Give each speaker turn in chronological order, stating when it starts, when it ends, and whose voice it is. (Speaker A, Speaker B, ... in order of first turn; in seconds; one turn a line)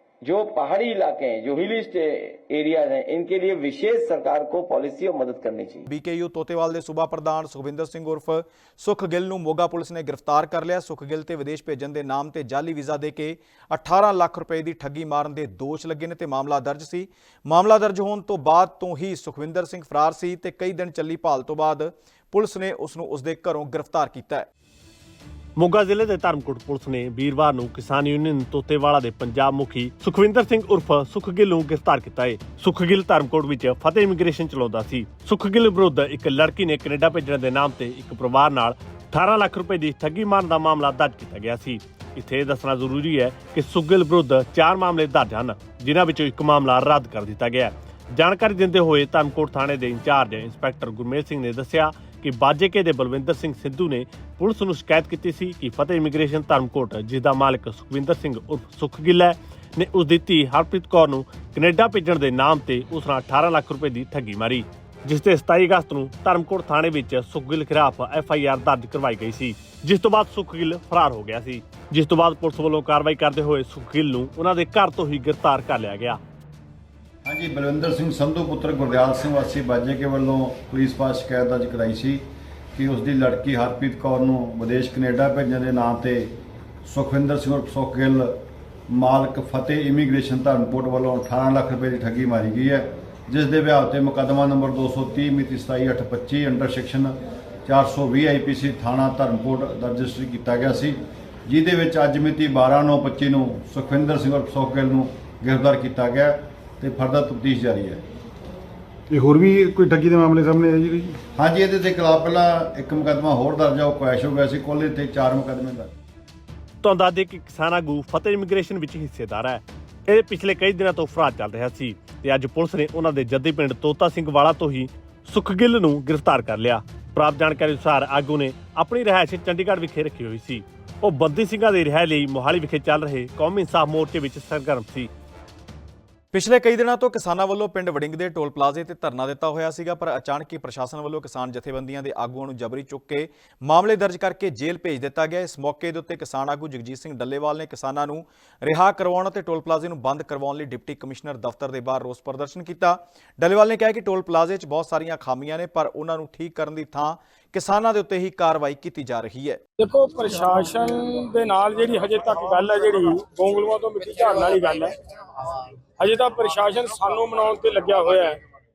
Speaker A: 0.2-5.8
Speaker B: 5.9-24.5
Speaker C: 25.6-76.2
Speaker D: 77.2-86.3
Speaker D: 86.8-108.0
Speaker E: 109.1-111.2
Speaker D: 111.3-115.9
Speaker C: 116.8-135.1
Speaker B: 136.3-159.6
Speaker F: 159.8-164.9
Speaker F: 166.0-168.4